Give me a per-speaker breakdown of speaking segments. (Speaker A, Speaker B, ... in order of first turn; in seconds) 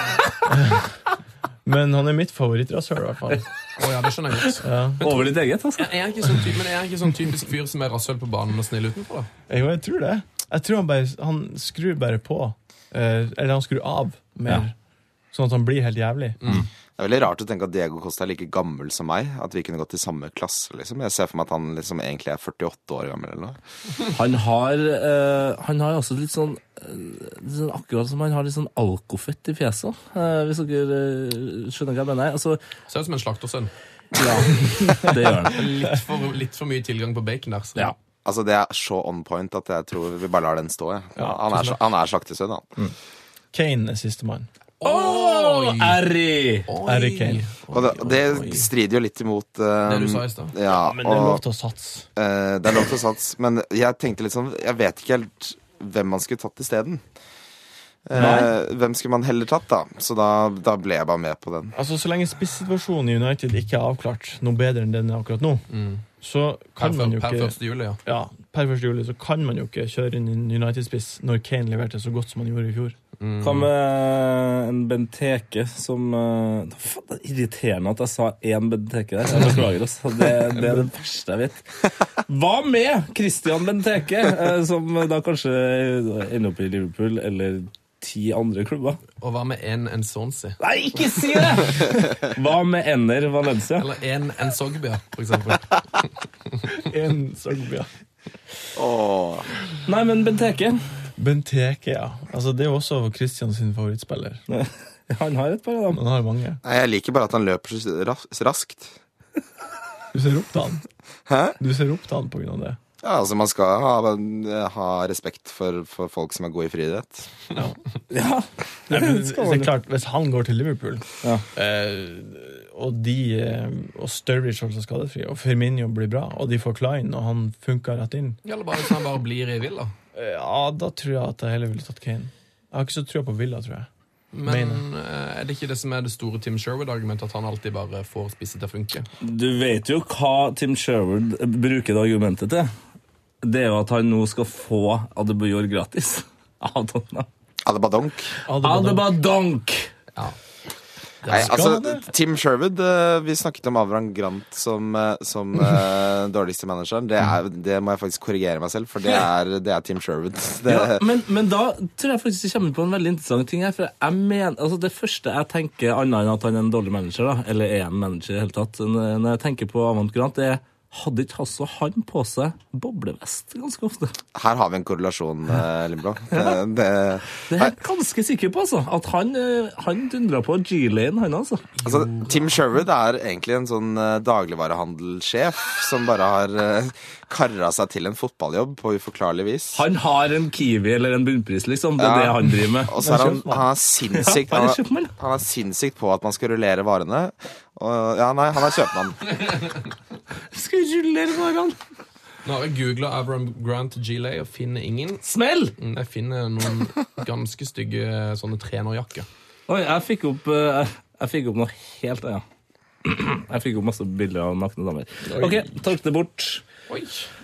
Speaker A: 0.5-0.9, 1.6-3.5, 4.6-5.1, 9.5-14.7, 15.3-16.4, 34.7-35.3, 41.2-41.8, 43.5-44.5, 46.9-47.5, 50.8-52.1, 58.2-58.5, 61.7-65.6, 66.2-73.0, 96.7-97.9, 101.2-104.4, 105.9-106.6, 110.1-110.8, 111.6-112.8, 117.5-117.8, 118.9-128.4, 130.1-133.9, 134.4-134.8, 148.5-149.1, 151.3-152.0, 193.0-193.7, 215.3-215.7
Speaker B: 3.8-9.3, 16.4-16.7, 32.9-33.7, 35.5-37.9, 44.8-46.0, 46.7-48.7, 49.9-50.5, 65.7-66.0, 66.8-68.0, 73.2-73.7, 89.2-90.6, 93.8-96.1, 128.4-129.9, 134.3-139.1, 151.2-151.6, 181.8-182.5, 202.4-205.2, 205.8-209.3, 216.9-217.3
Speaker C: 5.0-6.0, 24.1-32.6, 34.2-35.6, 44.8-46.7, 58.2-58.5, 73.4-89.0, 90.6-93.9, 99.9-100.8, 104.5-106.0, 118.1-119.7, 139.2-142.7, 143.4-147.3, 148.6-149.9, 160.7-174.2, 177.5-181.7, 189.7-193.0, 194.1-195.1, 200.5-201.8, 205.2-205.7, 209.7-212.4, 213.1-216.6
Speaker D: 17.0-23.6, 38.2-42.7, 47.7-51.4, 52.2-57.0, 58.1-61.8, 98.8-99.5, 106.6-109.0, 111.3-111.6, 113.0-117.3, 147.6-148.3, 151.3-161.0, 174.3-177.7, 181.8-189.8, 192.0-199.2